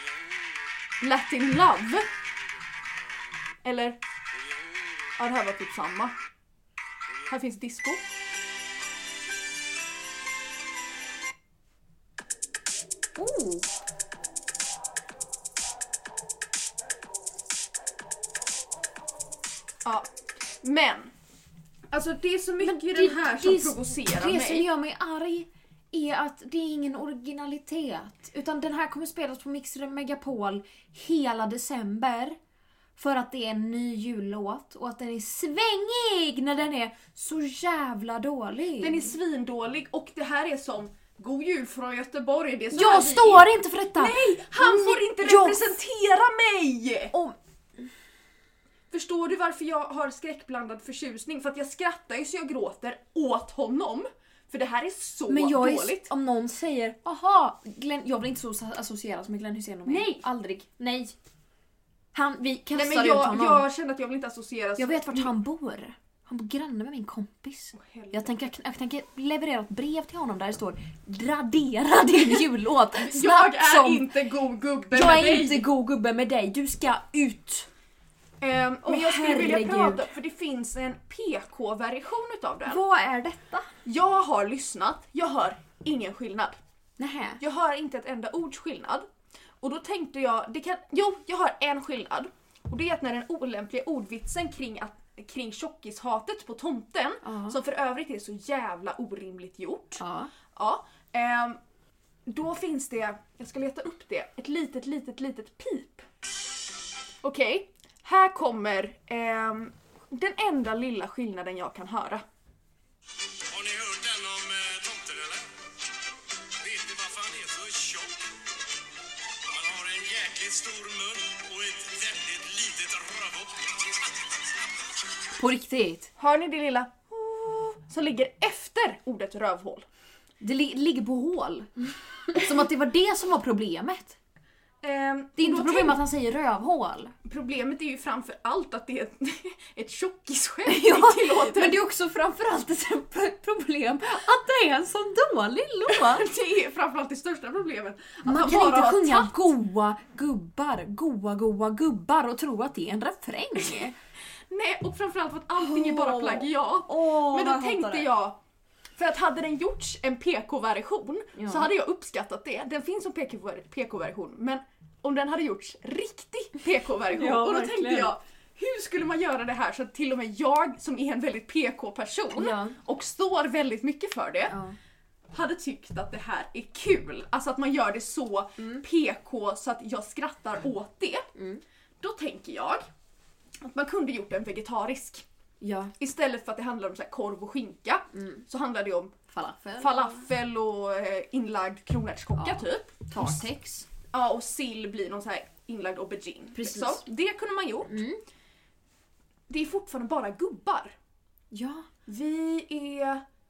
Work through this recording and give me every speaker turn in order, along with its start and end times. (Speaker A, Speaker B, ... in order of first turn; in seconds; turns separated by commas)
Speaker A: 1.0-2.1, Speaker A: 3.6-4.0, Speaker A: 5.2-6.1, Speaker A: 7.2-8.0, Speaker B: 13.2-13.7, Speaker A: 19.8-21.1, Speaker A: 21.9-24.7, Speaker B: 22.6-32.4, Speaker B: 33.0-39.1, Speaker A: 38.8-47.1, Speaker B: 42.7-45.7, Speaker B: 47.1-47.9, Speaker A: 48.9-56.1, Speaker B: 55.3-61.1, Speaker A: 59.9-60.2, Speaker B: 62.1-63.6, Speaker A: 62.7-65.3, Speaker B: 64.8-74.1, Speaker A: 67.7-68.5, Speaker A: 73.0-75.7, Speaker B: 74.9-77.7, Speaker A: 78.4-82.8, Speaker B: 78.8-80.1, Speaker B: 82.7-83.7, Speaker A: 83.8-86.6, Speaker B: 87.0-87.4, Speaker A: 87.4-89.1, Speaker A: 89.6-100.0, Speaker B: 97.2-97.6, Speaker B: 100.0-100.3, Speaker A: 100.5-101.6, Speaker A: 102.3-106.0, Speaker A: 107.2-112.2, Speaker C: 113.5-115.5, Speaker C: 116.6-118.3, Speaker C: 119.4-124.4, Speaker B: 125.4-126.1, Speaker A: 126.2-129.8, Speaker B: 130.4-131.7, Speaker B: 132.3-134.2, Speaker A: 134.8-136.0, Speaker B: 135.4-137.1, Speaker A: 137.2-141.8, Speaker B: 140.7-146.3, Speaker A: 145.9-149.4, Speaker B: 148.2-153.9, Speaker A: 154.5-158.4, Speaker B: 155.6-158.1, Speaker A: 158.9-174.6, Speaker B: 161.3-161.7, Speaker B: 167.1-168.2, Speaker B: 172.3-172.8, Speaker B: 174.5-174.8, Speaker A: 175.3-181.3, Speaker B: 178.6-178.8, Speaker B: 181.3-181.6, Speaker A: 182.0-182.9, Speaker A: 183.6-185.2, Speaker B: 185.6-185.9, Speaker A: 186.0-189.1, Speaker B: 188.1-188.4, Speaker B: 189.3-190.3, Speaker A: 189.8-193.4, Speaker B: 192.4-193.9, Speaker A: 194.1-198.0, Speaker B: 196.5-197.0, Speaker B: 197.8-198.2, Speaker A: 199.5-200.9, Speaker B: 201.5-201.9, Speaker A: 202.1-203.2